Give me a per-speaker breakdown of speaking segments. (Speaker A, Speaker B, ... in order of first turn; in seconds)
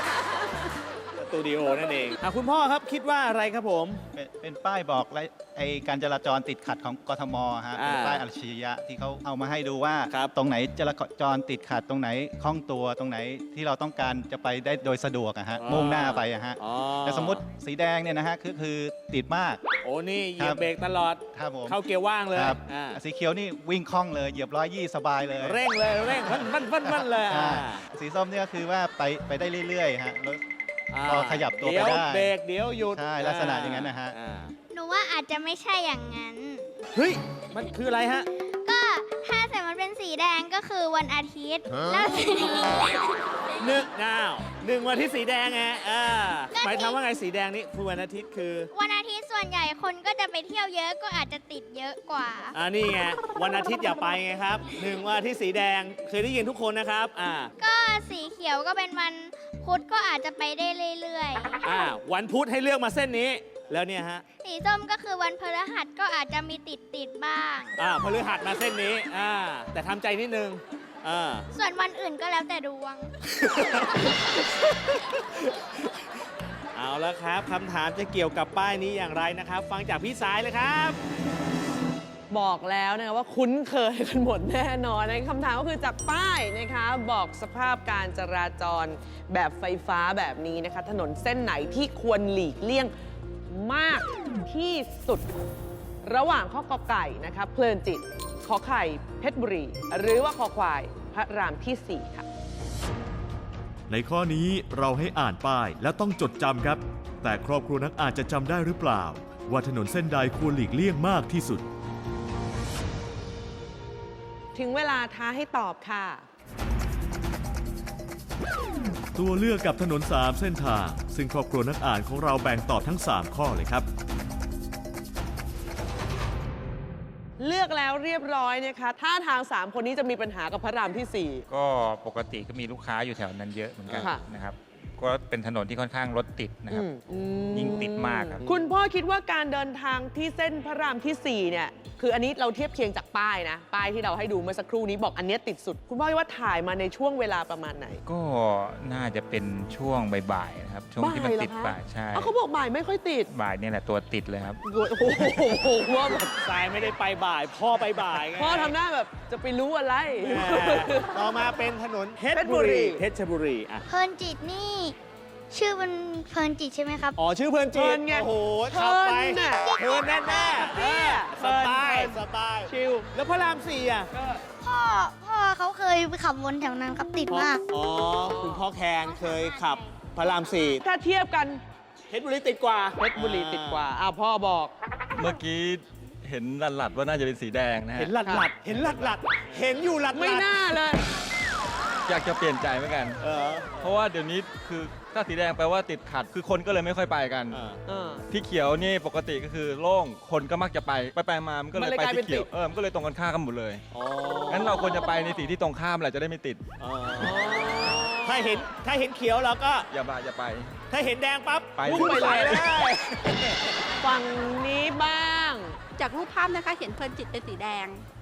Speaker A: 1.2-4.0, 7.8-8.2, 15.6-17.4, 19.8-23.0, 25.4-27.8, 30.9-34.5, 37.0-38.3, 43.6-48.7, 52.5-57.5, 61.6-64.2, 67.8-71.5, 73.2-76.0, 76.8-81.0, 133.9-134.2, 155.1-158.8, 160.2-163.8, 167.2-174.1, 177.3-180.8, 182.1-183.9, 188.0-190.6, 193.2-193.9, 197.5-197.8, 203.9-205.2, 206.8-209.9, 210.9-213.9
Speaker B: 4.1-19.7, 20.4-20.7, 21.3-21.8, 22.3-25.6, 26.2-30.4, 31.0-32.4, 33.0-34.1
Speaker C: 34.7-36.7, 38.6-43.1, 46.5-47.0, 48.7-52.6, 57.6-61.6, 64.4-67.8, 71.5-73.1, 163.9-165.0, 165.5-167.2, 169.4-170.7, 174.6-177.6, 179.1-179.9
Speaker D: 82.3-92.9, 93.5-95.2, 96.0-102.2, 114.5-116.2, 127.4-131.4, 136.7-148.0, 151.0-153.3, 154.7-156.3, 158.1-161.2, 162.3-163.1, 167.7-172.2, 172.7-173.0, 178.2-178.6, 180.8-181.6, 183.0-184.7, 190.1-191.0, 197.9-198.2, 201.7-202.5, 207.2-208.7, 211.9-212.8, 214.0-215.8
Speaker E: 103.9-111.7, 119.1-123.9
Speaker F: 131.5-136.9, 137.5-138.5, 148.1-152.3, 153.3-154.6
Speaker G: 185.2-189.1, 192.1-193.2, 193.8-197.6, 198.3-203.8, 204.5-206.6, 209.9-210.8, 211.8-212.6
Speaker H: 216.0-218.0